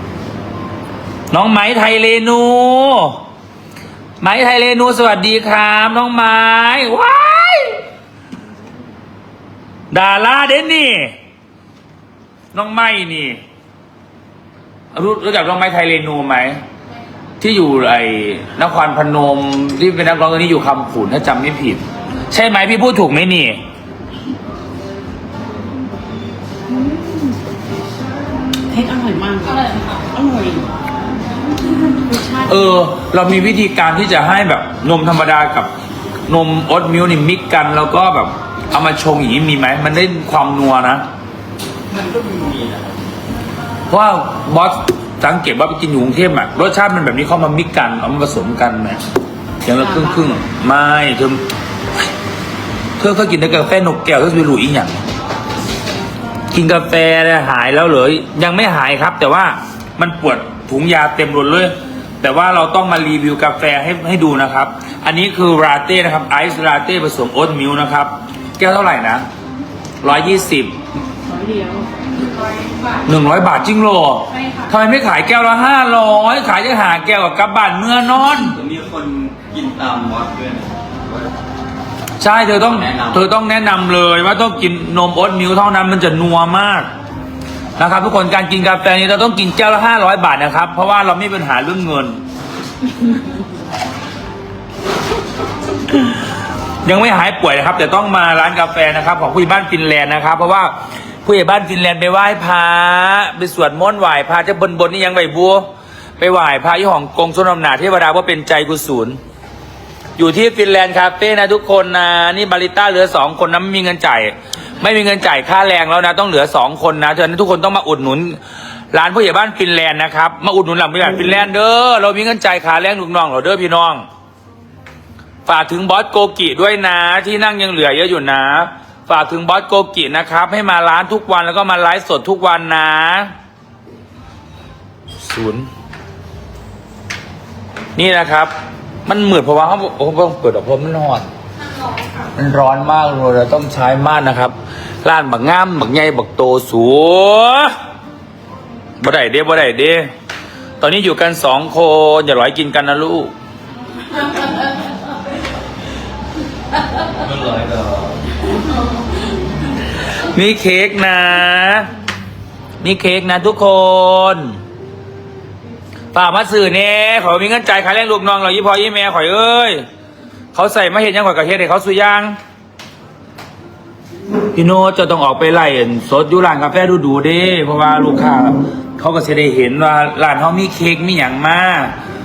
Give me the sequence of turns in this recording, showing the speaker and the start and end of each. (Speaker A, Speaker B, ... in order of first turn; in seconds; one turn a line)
Speaker A: 1.3-3.2
Speaker A: 4.2-7.8
Speaker A: 9.9-11.1
Speaker A: 12.5-13.4
Speaker A: 14.9-16.6
Speaker A: 17.4-23.6
Speaker B: 26.7-27.4
Speaker B: 28.7-30.7
Speaker B: 32.0-32.3
Speaker A: 32.3-35.7
Speaker A: 36.3-41.0
Speaker C: 41.9-42.9
Speaker A: 43.9-49.0
Speaker A: 49.6-51.4
Speaker B: 49.8-50.1
Speaker A: 53.0-55.0
Speaker A: 56.5-69.2
Speaker A: 70.0-70.7
Speaker B: 71.3-71.9
Speaker A: 73.0-78.6
Speaker C: 78.5-81.3
Speaker A: 82.2-86.9
Speaker C: 82.7-83.2
Speaker A: 87.8-92.2
Speaker A: 96.8-100.7
Speaker A: 101.2-105.6
Speaker A: 106.2-109.2
Speaker A: 110.2-118.4
Speaker A: 118.9-124.0
Speaker A: 125.5-133.3
Speaker A: 135.2-135.7
Speaker A: 137.9-138.5
Speaker A: 139.1-141.3
Speaker A: 142.3-147.7
Speaker A: 149.0-150.1
Speaker A: 150.8-153.3
Speaker C: 157.4-157.8
Speaker A: 160.3-161.9
Speaker A: 162.8-164.6
Speaker A: 166.1-169.8
Speaker A: 170.5-172.4
Speaker A: 174.5-181.9